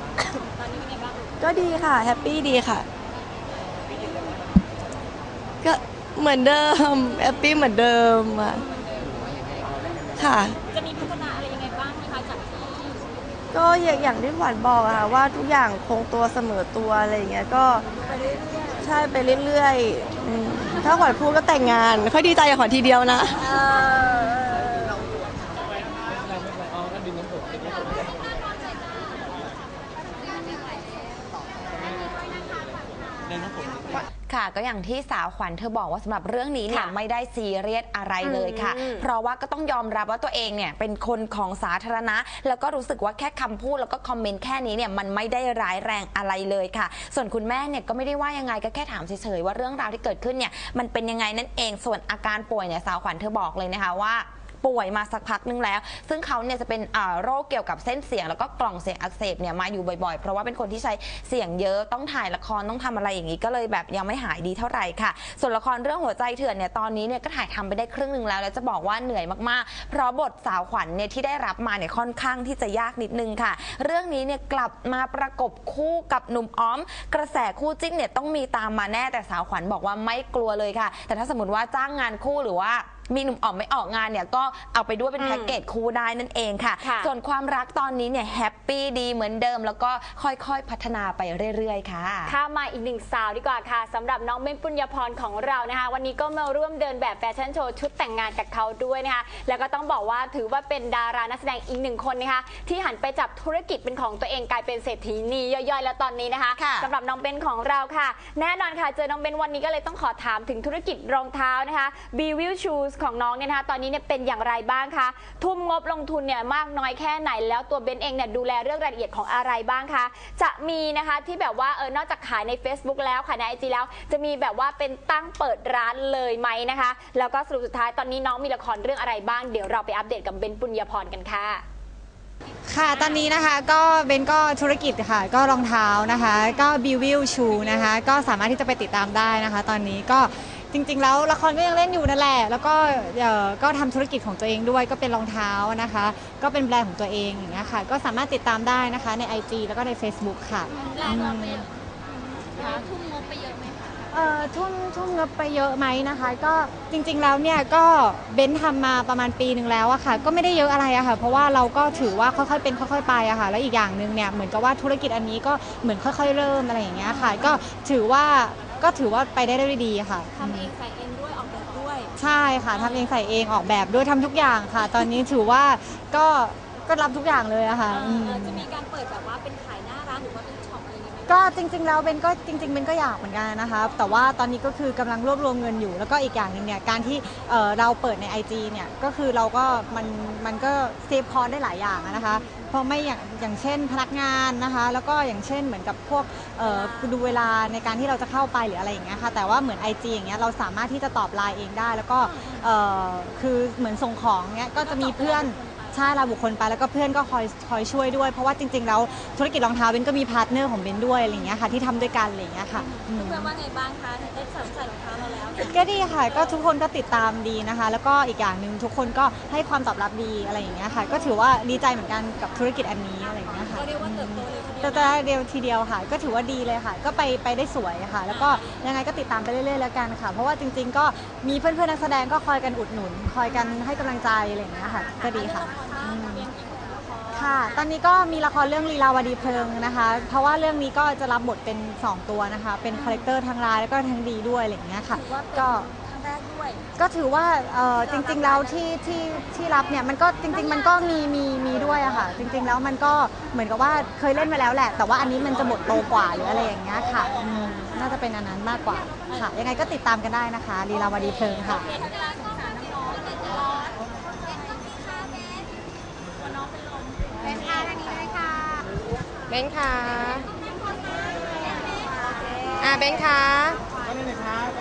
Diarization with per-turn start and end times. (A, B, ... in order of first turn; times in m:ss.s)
0:00.5-0:01.3 A
0:01.4-0:02.9 B
0:05.6-0:08.6 B
0:10.2-0:10.6 B
0:10.7-0:13.0 A
0:13.5-0:17.8 B
0:18.1-0:18.8 A
0:18.8-0:23.5 B
0:23.5-0:25.0 A
0:34.3-1:32.3 C
0:36.7-0:36.9 D
0:38.2-0:39.0 D
1:25.2-1:25.6 D
1:26.8-1:27.1 D
1:32.3-2:11.6 D
1:46.5-1:46.9 C
2:12.7-2:31.7 E
2:30.8-2:34.0 A
2:34.1-2:50.7 E
2:50.4-2:52.1 A
2:52.2-2:58.7 E
2:52.7-2:53.1 A
2:57.9-3:01.6 A
3:01.3-3:33.5 E
3:16.6-3:17.2 A
3:22.4-3:22.7 A
3:24.8-3:26.2 A
3:32.8-3:35.8 A
3:35.6-3:56.5 E
3:43.6-3:45.2 A
3:48.3-3:48.6 A
3:54.8-3:57.9 A
3:57.3-4:05.9 E
3:59.4-4:00.3 A
4:05.1-4:06.8 A
4:07.0-4:21.8 E
4:08.1-4:08.7 A
4:21.4-4:25.7 A
4:26.4-4:28.4 A
4:29.5-4:30.4 E
4:30.9-4:33.2 A
4:32.8-4:33.8 E